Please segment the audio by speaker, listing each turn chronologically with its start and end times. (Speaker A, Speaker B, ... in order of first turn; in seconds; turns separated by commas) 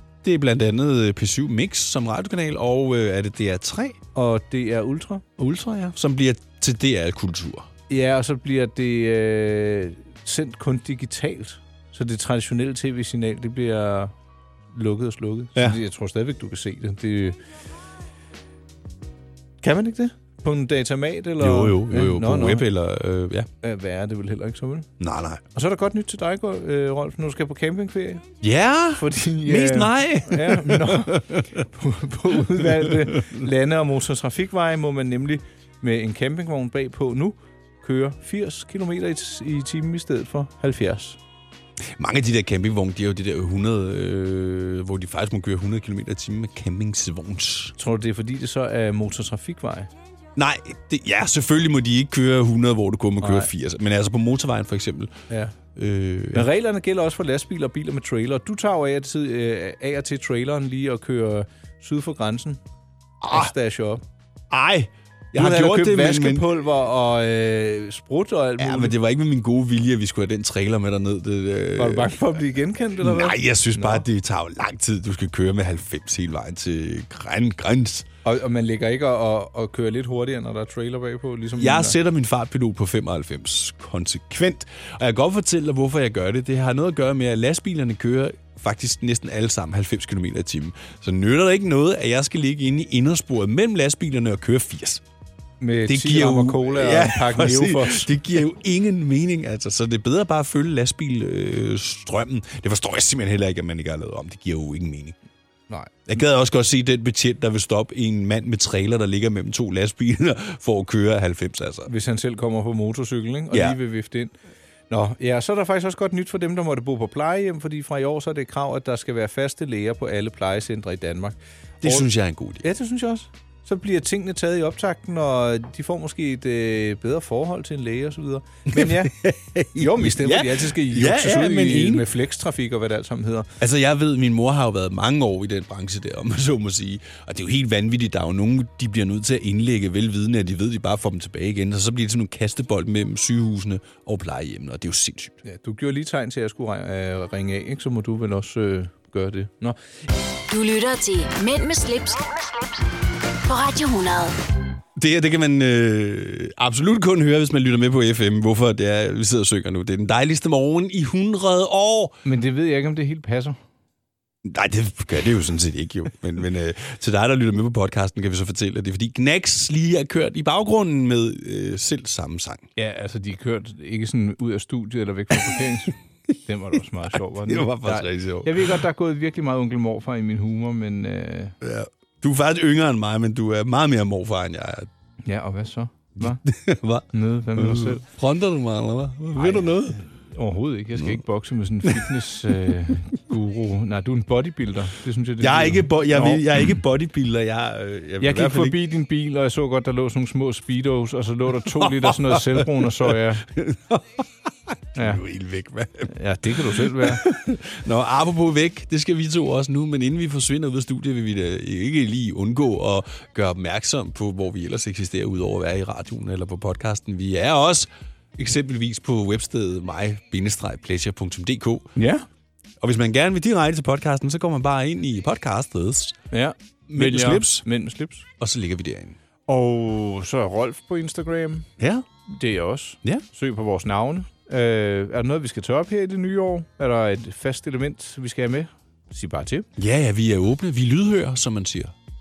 Speaker A: 0.2-4.0, Speaker B: 4.1-5.2, Speaker A: 5.4-7.7, Speaker B: 7.9-14.1, Speaker B: 14.7-17.4, Speaker B: 19.6-22.7, Speaker A: 21.4-23.5, Speaker B: 23.6-24.9, Speaker A: 25.0-25.4, Speaker B: 25.5-28.2, Speaker A: 28.4-31.6, Speaker B: 28.9-41.2, Speaker A: 32.6-33.4, Speaker A: 42.0-47.7, Speaker B: 47.8-49.9, Speaker A: 50.4-55.1, Speaker B: 53.2-53.5, Speaker B: 55.3-55.5, Speaker A: 55.7-56.5, Speaker B: 56.3-62.6, Speaker A: 63.2-63.5, Speaker B: 63.3-64.0, Speaker A: 64.5-66.5, Speaker B: 65.3-69.0, Speaker A: 68.6-72.4, Speaker B: 71.8-74.0, Speaker A: 73.0-78.0, Speaker B: 78.2-82.0, Speaker A: 81.6-95.0, Speaker B: 95.6-98.2, Speaker A: 95.8-105.2, Speaker B: 105.7-106.0, Speaker A: 106.0-111.9, Speaker B: 111.9-114.3, Speaker A: 113.5-113.8, Speaker B: 114.9-129.1, Speaker A: 121.8-122.6, Speaker A: 128.7-132.1, Speaker B: 129.7-133.5, Speaker A: 133.6-145.4, Speaker B: 145.4-149.8, Speaker C: 150.5-152.7, Speaker C: 153.5-154.3, Speaker A: 154.9-162.2, Speaker B: 162.2-163.6, Speaker A: 164.4-172.6, Speaker B: 172.8-181.5, Speaker A: 175.5-176.3, Speaker A: 177.4-178.8, Speaker A: 181.6-184.9, Speaker B: 185.2-186.4, Speaker A: 186.2-190.0, Speaker B: 187.1-188.0, Speaker B: 189.3-196.4, Speaker A: 191.8-192.1, Speaker A: 195.4-198.8, Speaker B: 198.2-203.4, Speaker A: 201.7-221.9, Speaker B: 204.9-205.2, Speaker B: 206.1-207.2, Speaker B: 221.9-222.2, Speaker A: 222.8-226.2, Speaker B: 226.3-228.2, Speaker A: 226.9-227.6, Speaker A: 228.4-229.2, Speaker B: 229.5-231.7, Speaker A: 231.8-232.0, Speaker B: 232.3-239.7, Speaker A: 239.8-241.9